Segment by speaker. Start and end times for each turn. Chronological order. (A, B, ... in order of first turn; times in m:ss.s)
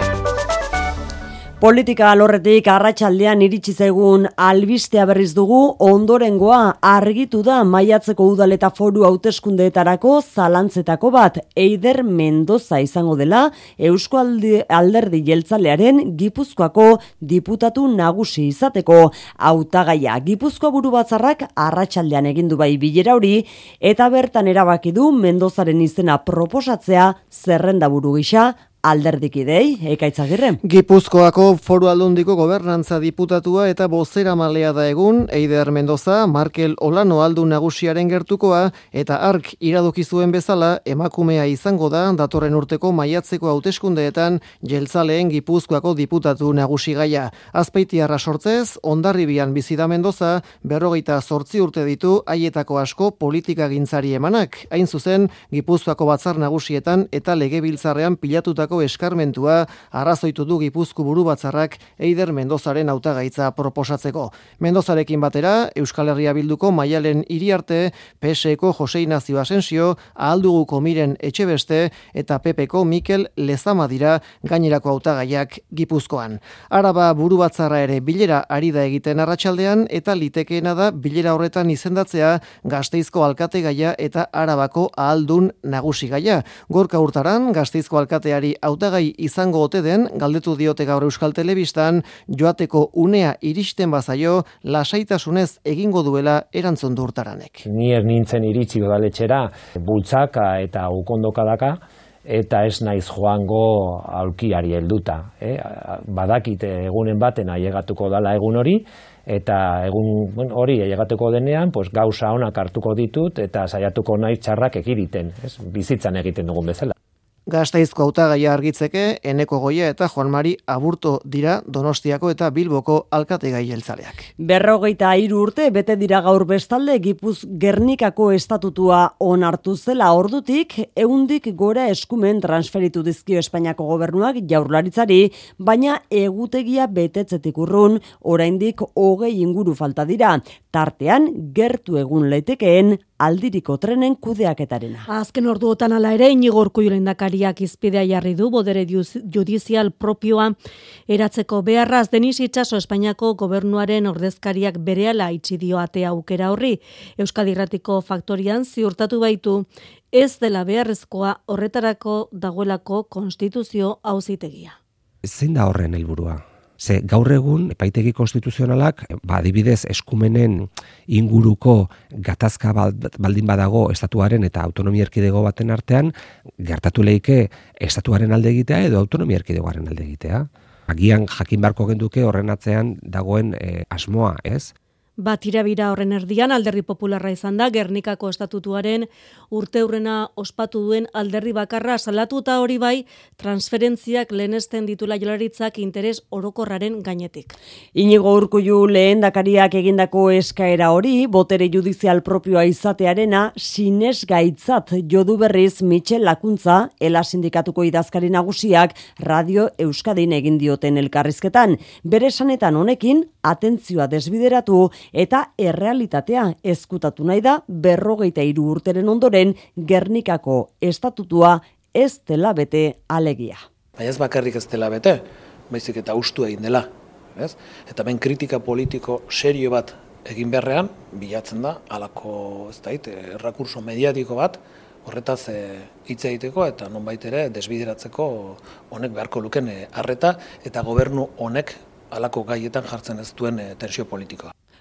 0:01.6-0:30.6 A
0:30.6-1:37.6 B
1:37.6-1:56.9 C
1:57.5-2:04.3 B
2:04.4-2:25.0 A
2:25.1-2:30.6 D
2:31.1-2:44.8 D
2:45.3-2:56.1 E
2:56.6-3:04.7 E
3:05.2-3:17.6 D
3:18.0-3:43.6 A
3:44.0-4:04.5 F